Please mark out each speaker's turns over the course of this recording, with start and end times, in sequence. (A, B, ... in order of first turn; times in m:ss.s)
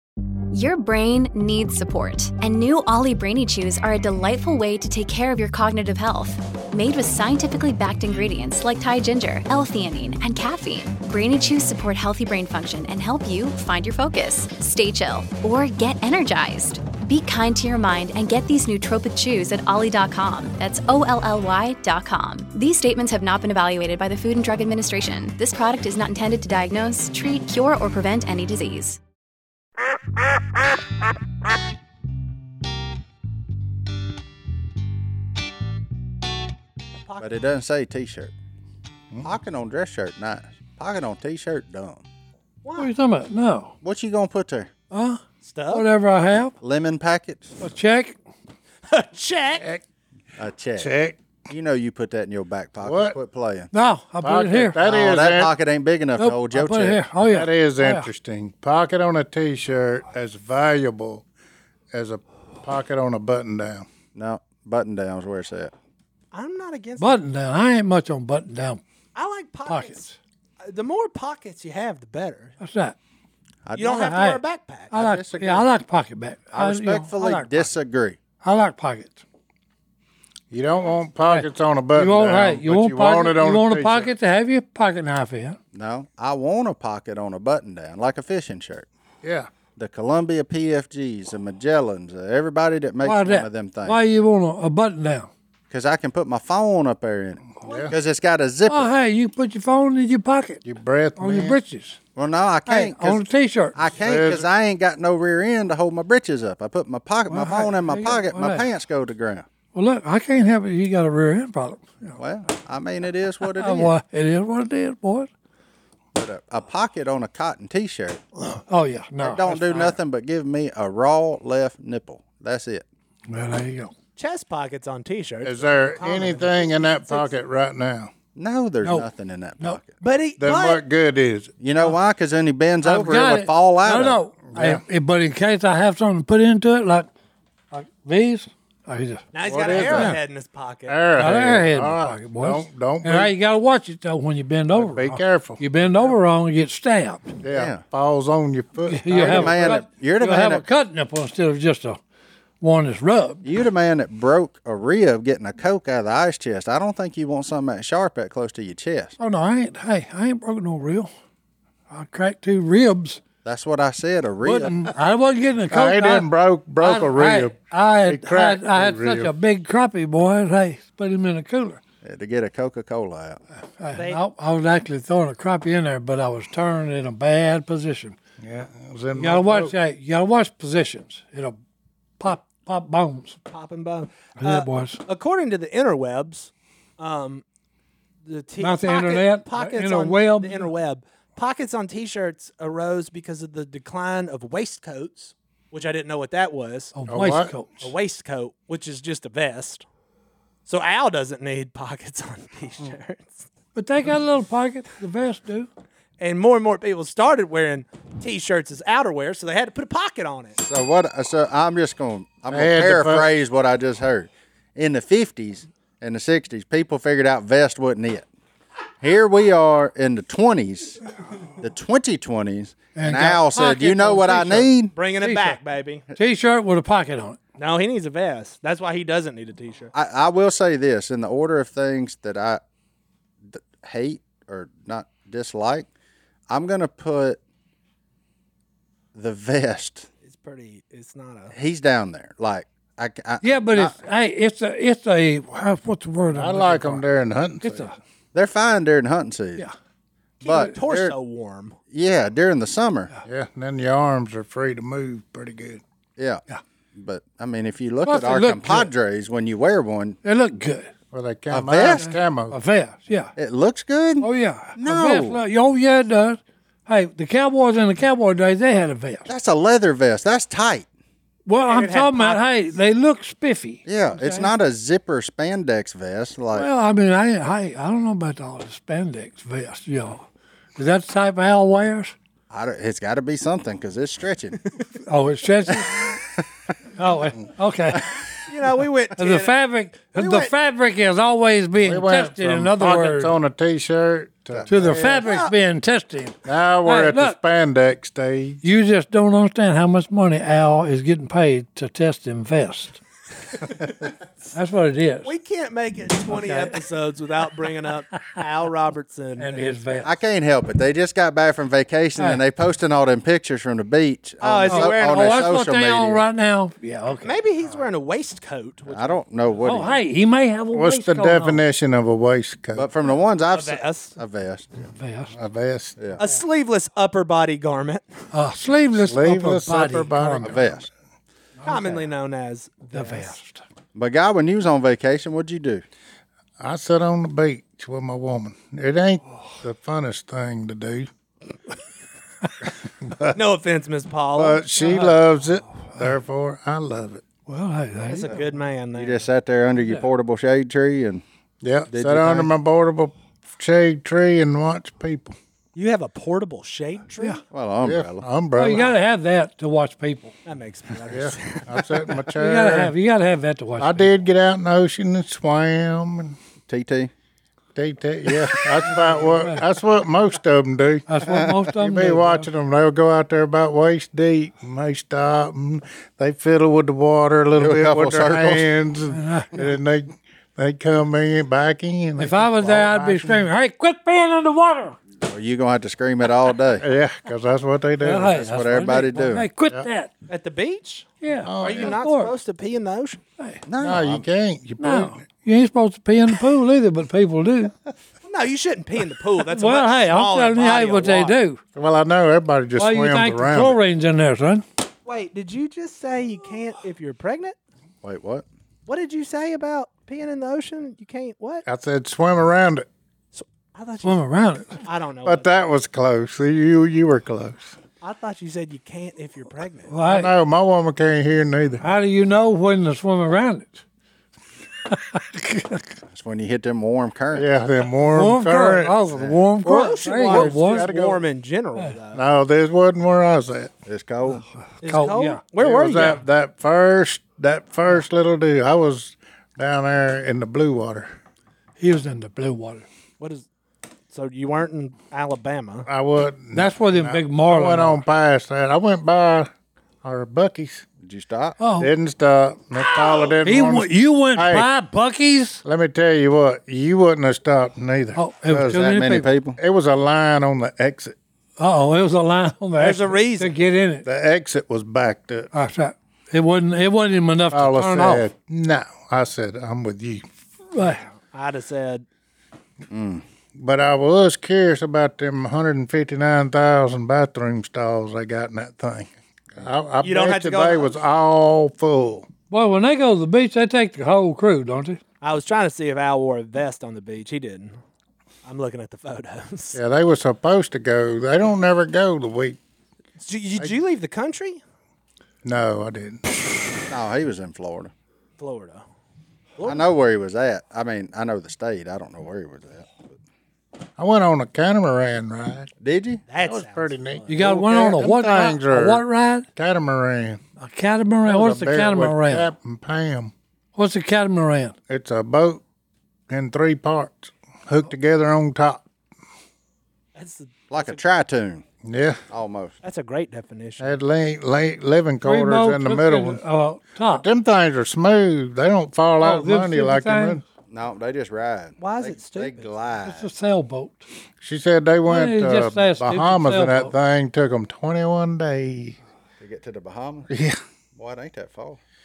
0:00.5-0:29.0 A
0:37.0-0:37.4 B
0:37.2-0:38.3 C
0:39.2-0:42.0 C
0:42.6-0:42.9 B
0:42.8-0:43.7 D
0:43.8-0:44.7 C
0:44.9-0:46.6 D
0:45.4-0:45.9 B
0:46.6-0:47.6 C
0:47.6-0:48.2 D
0:48.9-0:49.7 B
0:50.4-0:50.9 C
0:50.8-0:51.2 E
0:51.5-0:53.7 C
0:52.8-0:53.2 E
0:53.7-0:54.8 D
0:54.2-0:55.5 E
0:54.8-0:57.0 C
0:56.2-0:58.1 D
0:57.2-1:01.2 E
1:01.9-1:03.9 E
1:04.2-1:05.7 C
1:06.3-1:07.2 B
1:07.0-1:08.8 D
1:09.2-1:10.0 B
1:09.7-1:10.2 D
1:10.6-1:12.6 B
1:12.6-1:13.0 D
1:13.6-1:14.0 C
1:13.8-1:14.9 B
1:13.9-1:17.7 D
1:14.9-1:15.7 C
1:16.5-1:18.2 C
1:18.4-1:19.2 D
1:20.5-1:24.1 E
1:21.2-1:25.6 D
1:25.7-1:28.9 C
1:29.2-1:29.5 E
1:29.8-1:34.0 C
1:33.0-1:35.3 D
1:35.7-1:38.9 C
1:37.6-1:37.9 E
1:38.7-1:40.6 D
1:40.6-1:41.6 E
1:41.2-1:42.0 D
1:42.2-1:49.5 C
1:42.7-1:43.8 D
1:44.0-1:44.5 E
1:47.3-1:48.7 D
1:49.7-1:52.2 D
1:52.2-1:54.0 C
1:53.4-1:55.3 D
1:56.1-1:58.2 C
1:58.4-2:00.0 D
1:59.2-2:02.8 C
2:03.3-2:03.9 D
2:04.2-2:07.4 B
2:05.4-2:08.1 E
2:08.4-2:10.0 C
2:08.8-2:09.1 D
2:10.0-2:10.8 B
2:10.4-2:11.5 E
2:11.6-2:14.2 C
2:12.8-2:17.1 D
2:14.5-2:14.8 E
2:17.7-2:20.1 D
2:19.3-2:21.0 B
2:19.4-2:20.2 E
2:20.9-2:23.3 E
2:21.1-2:27.4 D
2:24.7-2:25.6 E
2:27.4-2:29.8 E
2:27.5-2:27.8 C
2:28.9-2:32.0 D
2:29.1-2:30.7 C
2:32.6-2:33.4 D
2:33.4-2:39.2 C
2:39.2-2:41.1 D
2:41.9-2:43.2 D
2:43.4-2:44.8 C
2:44.4-2:46.3 D
2:45.7-2:49.3 E
2:46.8-2:51.8 D
2:52.0-2:53.4 C
2:53.8-2:58.2 D
2:54.0-2:54.2 B
2:58.4-2:59.7 E
2:59.1-3:01.6 D
3:02.2-3:03.4 D
3:03.5-3:07.4 B
3:04.4-3:05.0 D
3:08.2-3:17.0 B
3:08.6-3:10.7 D
3:16.9-3:17.9 D
3:17.1-3:17.5 E
3:17.8-3:19.8 B
3:20.7-3:23.5 B
3:23.8-3:25.7 D
3:26.2-3:30.6 B
3:30.6-3:38.3 C
3:32.5-3:33.3 E
3:39.0-3:41.0 C
3:41.6-3:45.0 C
3:43.0-3:45.6 D
3:44.9-3:46.0 B
3:46.1-3:47.4 D
3:47.6-3:49.9 B
3:49.9-3:52.6 C
3:53.5-3:55.9 C
3:56.5-3:57.4 C
3:59.2-4:00.1 C
4:00.2-4:01.6 B
4:01.5-4:04.0 C
4:03.4-4:07.0 D
4:06.3-4:07.9 E
4:07.6-4:08.0 D
4:08.3-4:09.7 C
4:10.4-4:11.8 B
4:10.4-4:11.2 C
4:11.9-4:13.1 C
4:13.3-4:15.8 E
4:16.2-4:16.4 C
4:17.0-4:20.2 C
4:18.0-4:18.9 D
4:20.2-4:20.9 D
4:21.1-4:22.6 E
4:21.5-4:22.1 C
4:22.0-4:23.3 D
4:23.4-4:25.4 C
4:24.2-4:29.3 D
4:29.3-4:30.9 C
4:31.5-4:34.5 D
4:31.7-4:32.5 B
4:33.9-4:36.7 C
4:36.5-4:42.2 D
4:42.5-4:44.6 C
4:45.1-4:46.1 D
4:47.0-4:48.1 D
4:48.5-4:49.5 B
4:49.2-4:53.3 D
4:50.1-4:50.5 B
4:51.8-4:55.0 E
4:54.5-4:55.4 C
4:54.7-4:57.4 D
4:55.2-4:55.6 B
4:56.5-4:58.6 E
4:58.6-5:03.0 D
5:04.5-5:05.3 D
5:05.2-5:10.1 B
5:06.3-5:06.7 D
5:08.1-5:08.4 D
5:09.4-5:10.1 D
5:10.0-5:16.3 C
5:14.4-5:15.5 B
5:14.7-5:17.4 D
5:17.2-5:19.2 B
5:18.9-5:20.0 C
5:19.6-5:21.6 D
5:20.7-5:22.9 E
5:22.8-5:24.9 C
5:23.5-5:24.2 B
5:24.9-5:25.4 D
5:25.3-5:26.0 E
5:26.0-5:26.2 C
5:26.2-5:28.1 B
5:28.3-5:30.6 D
5:28.9-5:30.8 E
5:30.4-5:30.9 C
5:31.6-5:32.1 D
5:31.6-5:33.4 B
5:32.9-5:33.6 D
5:34.0-5:35.8 C
5:36.6-5:41.1 E
5:43.0-5:43.4 E
5:43.3-5:44.9 B
5:44.4-5:47.2 E
5:44.8-5:45.2 D
5:47.5-5:48.5 D
5:48.1-5:49.3 B
5:48.9-5:51.2 C
5:51.6-5:55.4 E
5:51.9-5:52.5 C
5:55.8-5:57.4 B
5:57.5-5:58.2 C
5:57.8-5:58.9 E
5:58.6-6:00.4 D
6:00.4-6:02.1 B
6:01.1-6:02.9 E
6:02.4-6:04.1 D
6:03.8-6:06.4 E
6:06.7-6:07.1 C
6:07.8-6:11.2 E
6:08.9-6:09.6 D
6:11.1-6:12.5 D
6:11.2-6:11.6 C
6:11.8-6:23.5 E
6:17.6-6:18.7 C
6:19.1-6:19.6 D
6:22.2-6:25.0 D
6:25.2-6:26.8 C
6:26.8-6:29.0 E
6:28.0-6:30.1 D
6:28.4-6:29.5 C
6:30.3-6:33.2 B
6:31.2-6:32.4 D
6:31.4-6:32.0 E
6:33.4-6:33.6 D
6:33.7-6:34.2 C
6:33.8-6:35.2 E
6:34.8-6:37.7 D
6:38.2-6:41.4 B
6:39.5-6:41.6 D
6:41.8-6:43.8 E
6:42.8-6:44.6 D
6:45.1-6:47.6 B
6:48.0-6:48.5 C
6:48.9-6:51.6 B
6:51.7-6:52.9 E
6:53.3-6:55.5 B
6:54.0-6:54.8 D
6:55.3-6:57.8 E
6:58.0-7:00.0 B
6:59.9-7:00.3 D
7:00.0-7:01.8 E
7:01.8-7:03.8 D
7:04.9-7:06.0 D
7:06.1-7:07.5 C
7:07.3-7:09.0 E
7:08.1-7:11.0 D
7:09.1-7:09.4 C
7:09.6-7:12.2 B
7:10.1-7:11.2 E
7:12.1-7:13.7 E
7:13.9-7:14.4 C
7:14.8-7:16.2 B
7:14.9-7:15.4 D
7:15.6-7:21.1 E
7:21.8-7:22.9 D
7:23.2-7:23.5 B
7:24.1-7:25.9 B
7:25.9-7:29.5 E
7:26.5-7:28.0 D
7:30.0-7:30.9 E
7:31.0-7:31.6 C
7:31.6-7:31.9 D
7:31.8-7:34.7 E
7:32.8-7:35.6 D
7:35.6-7:39.0 E
7:38.2-7:39.3 D
7:38.5-7:39.6 C
7:39.6-7:41.2 E
7:41.6-7:44.1 D
7:42.8-7:43.6 B
7:44.1-7:45.5 E
7:45.5-7:48.3 D
7:47.5-7:50.2 E
7:50.7-7:51.0 D
7:51.1-7:52.0 B
7:52.9-7:53.2 C
7:53.6-8:02.3 E
8:00.0-8:00.9 B
8:02.5-8:05.0 D
8:05.2-8:07.8 B
8:08.4-8:09.8 B
8:09.8-8:12.6 E
8:13.2-8:14.6 B
8:15.4-8:16.3 E
8:16.9-8:17.9 C
8:18.4-8:18.8 B
8:19.6-8:19.9 B
8:19.6-8:23.0 C
8:24.0-8:25.7 E
8:25.8-8:26.2 C
8:26.3-8:27.6 B
8:26.4-8:29.0 E
8:27.3-8:29.5 D
8:29.6-8:30.4 E
8:30.6-8:32.5 D
8:31.2-8:33.3 E
8:33.8-8:34.8 D
8:34.9-8:35.6 E
8:36.3-8:38.8 E
8:40.2-8:41.0 B
8:40.7-8:41.6 C
8:41.8-8:42.2 E
8:42.3-8:42.8 C
8:42.8-8:43.9 B
8:43.8-8:46.4 E
8:45.2-8:47.2 D
8:47.1-8:50.4 E
8:49.2-8:50.4 D
8:50.7-8:53.3 C
8:51.8-8:52.7 B
8:53.0-8:54.0 D
8:54.4-8:59.0 E
8:55.1-8:56.9 D
8:59.4-9:00.3 C
9:00.3-9:00.6 E
9:01.0-9:01.8 C